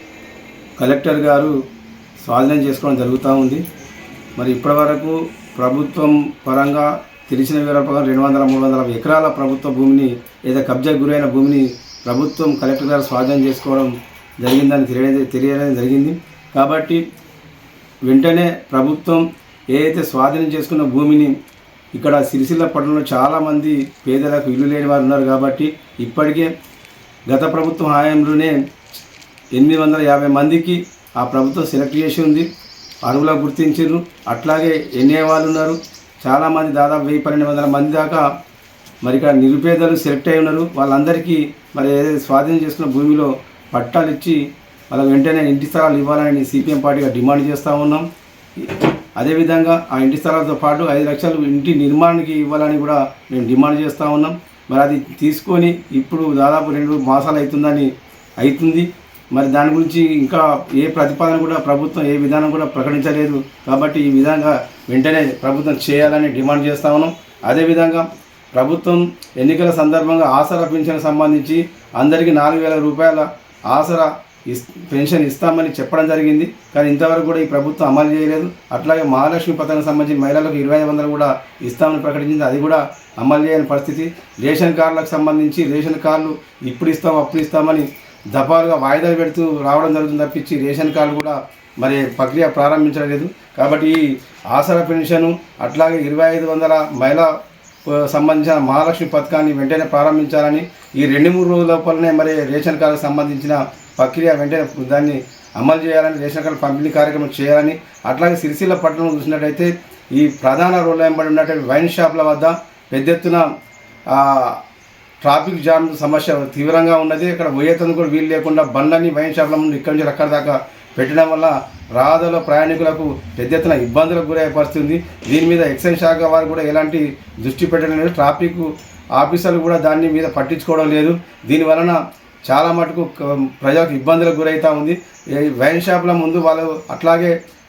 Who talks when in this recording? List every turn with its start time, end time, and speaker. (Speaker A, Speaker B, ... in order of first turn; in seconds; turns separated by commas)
Speaker A: 0.8-1.5, Speaker A: 2.2-3.6, Speaker A: 4.4-17.0, Speaker A: 18.0-21.4, Speaker A: 21.9-26.5, Speaker A: 27.3-28.6, Speaker A: 29.5-32.5, Speaker A: 33.0-38.3, Speaker A: 39.0-44.4, Speaker A: 44.9-48.1, Speaker A: 48.6-97.3, Speaker A: 97.8-113.5, Speaker A: 114.1-114.6, Speaker A: 115.2-137.4